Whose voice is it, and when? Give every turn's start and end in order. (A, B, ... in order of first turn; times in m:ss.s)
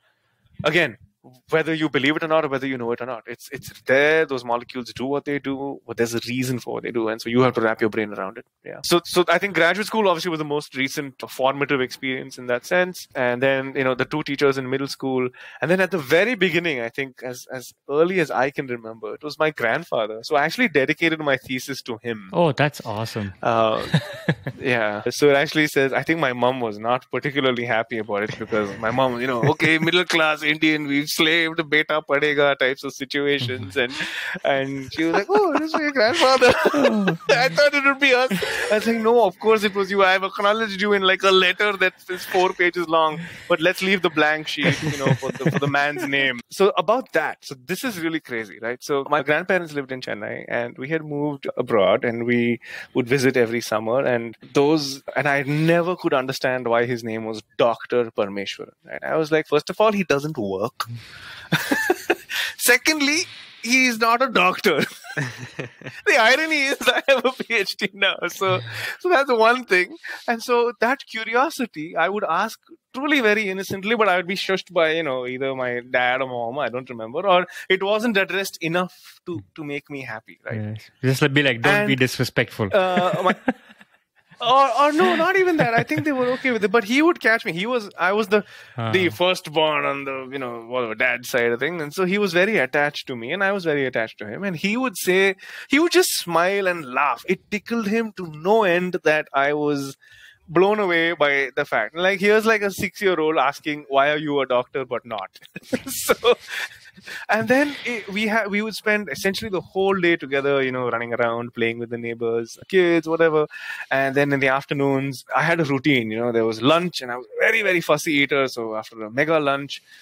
0:00.6-0:22.3 A
0:22.3-0:24.5 B
0:23.4-1:00.9 A
0:36.8-0:37.2 B
0:44.8-0:45.6 B
1:01.5-1:05.5 A
1:06.0-1:20.6 A
1:20.5-1:23.6 B
1:21.6-1:22.0 A
1:22.7-1:23.4 A
1:24.4-1:40.0 A
1:28.8-1:29.2 B
1:40.5-1:46.7 A
1:47.3-1:59.8 A